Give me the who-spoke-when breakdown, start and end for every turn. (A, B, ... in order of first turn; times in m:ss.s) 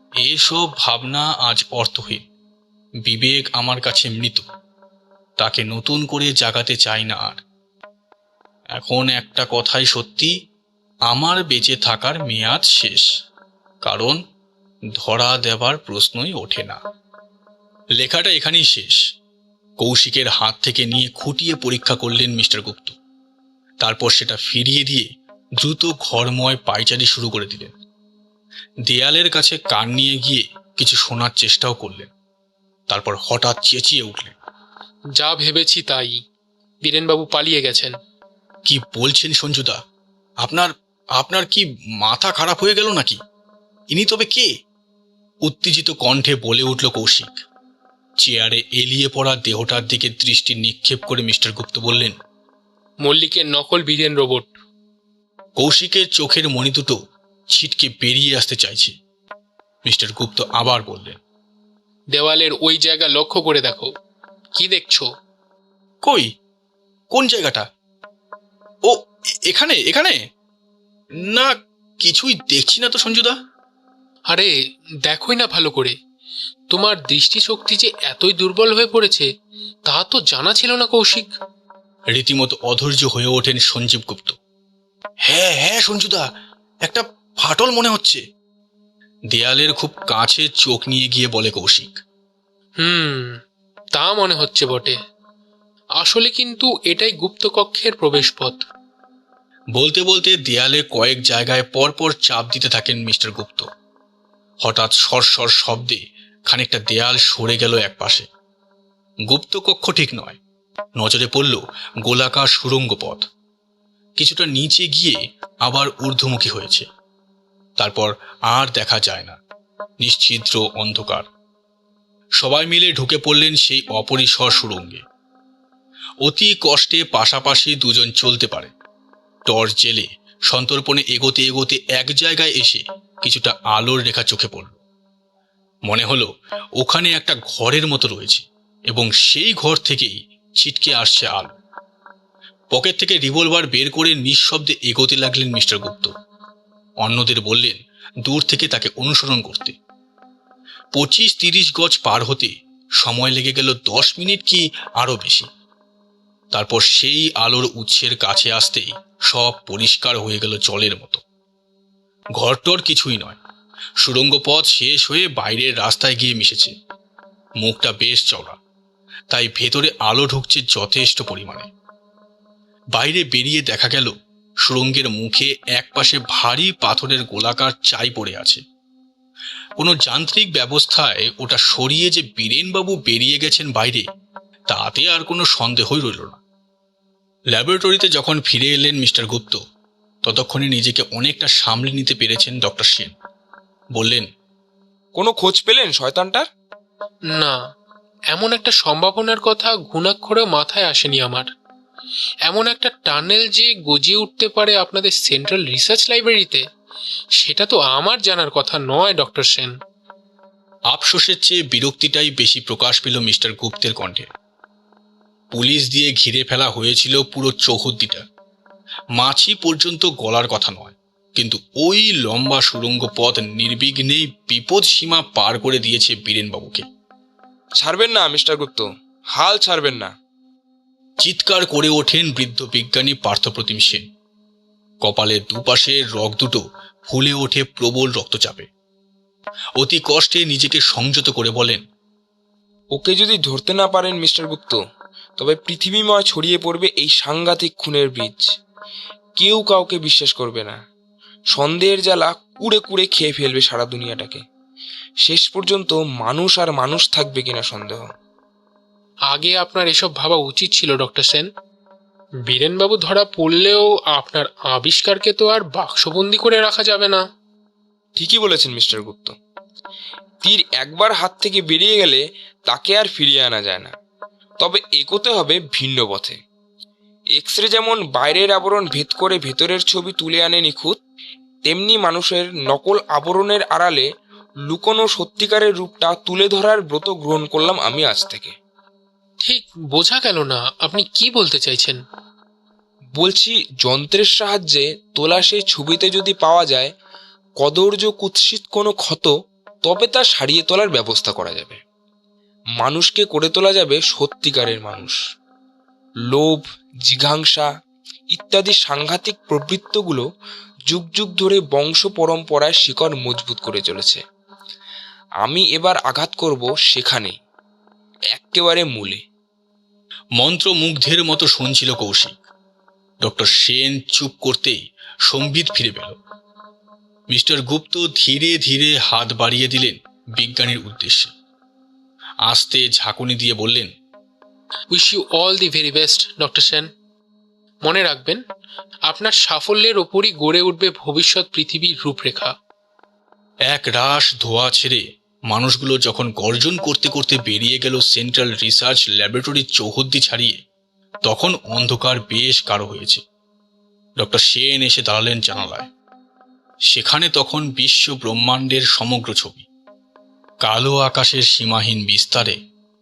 0:00.2-0:02.3 A
0:03.1-0:04.4 A
0:05.4-0:07.4 A
0:08.8-0:10.3 A
0:11.1-0:13.1 A
0:13.8-0:14.2 A
0:15.0-0:16.8 A
0:18.0-0:19.0 A
0:19.8-0:23.0 A
0:23.8-0:27.8 A
0:28.9-0:32.1 A
0:32.9-0:34.4 A
0:35.2-0:36.2 B
0:36.8-0:38.0 B
0:38.7-0:39.8 A
0:40.4-0:43.2 A
0:43.9-0:44.5 A
0:45.4-0:47.4 A
0:48.2-0:52.2 A
0:53.0-0:54.5 B
0:55.6-0:57.0 A
0:57.5-0:59.0 A
0:59.9-1:01.2 A
1:02.1-1:03.9 B
1:04.6-1:05.1 B
1:06.0-1:06.3 A
1:07.1-1:07.6 A
1:08.9-1:10.2 A
1:11.2-1:13.4 A
1:15.1-1:16.0 B
1:16.7-1:19.3 B
1:19.9-1:21.3 B
1:22.1-1:24.4 A
1:25.3-1:26.3 A
1:26.8-1:28.2 A
1:29.3-1:32.0 A
1:32.8-1:33.4 B
1:34.0-1:35.0 B
1:36.0-1:38.6 B
1:39.8-1:43.7 A
1:44.6-1:48.3 A
1:49.3-1:50.4 A
1:51.0-1:53.3 A
1:54.2-1:56.9 A
1:57.8-1:59.4 A
2:00.0-2:01.3 A
2:02.4-2:05.0 A
2:06.2-2:08.7 A
2:09.5-2:14.8 A
2:15.9-2:21.6 A
2:22.7-2:26.1 A
2:27.0-2:29.8 A
2:31.0-2:35.5 A
2:36.5-2:41.2 A
2:42.4-2:43.4 A
2:44.0-2:46.7 A
2:47.6-2:48.6 A
2:49.3-2:51.7 A
2:52.9-2:54.1 A
2:54.6-2:58.6 A
2:59.8-3:04.0 A
3:04.7-3:06.4 A
3:07.5-3:09.6 A
3:10.2-3:13.1 A
3:14.0-3:14.3 A
3:15.2-3:16.5 C
3:18.3-3:21.5 B
3:22.5-3:26.6 B
3:27.4-3:29.7 B
3:30.9-3:34.3 A
3:35.5-3:38.2 A
3:39.2-3:46.9 A
3:47.8-3:50.1 C
3:51.2-3:54.1 A
3:55.0-3:58.7 A
3:59.8-4:01.8 A
4:02.9-4:04.8 C
4:05.4-4:08.5 C
4:09.4-4:10.8 C
4:11.5-4:14.4 C
4:15.2-4:18.1 C
4:19.3-4:21.5 B
4:22.5-4:27.2 B
4:28.2-4:29.4 C
4:30.4-4:33.9 C
4:34.6-4:36.4 C
4:37.4-4:41.0 C
4:41.7-4:44.1 C
4:44.7-4:48.6 C
4:49.4-4:52.0 B
4:53.2-4:56.9 C
4:57.6-4:59.3 C
4:59.8-5:01.8 C
5:02.8-5:05.2 C
5:06.3-5:07.7 C
5:08.3-5:10.2 C
5:10.9-5:14.2 C
5:15.4-5:17.4 C
5:18.3-5:19.2 C
5:20.4-5:22.4 A
5:23.2-5:26.2 A
5:27.3-5:31.3 A
5:32.5-5:33.9 A
5:34.9-5:36.9 B
5:37.8-5:38.4 B
5:39.1-5:42.5 B
5:43.7-5:50.6 A
5:51.2-5:53.2 A
5:54.2-5:55.9 A
5:56.9-5:59.7 A
6:00.6-6:02.6 A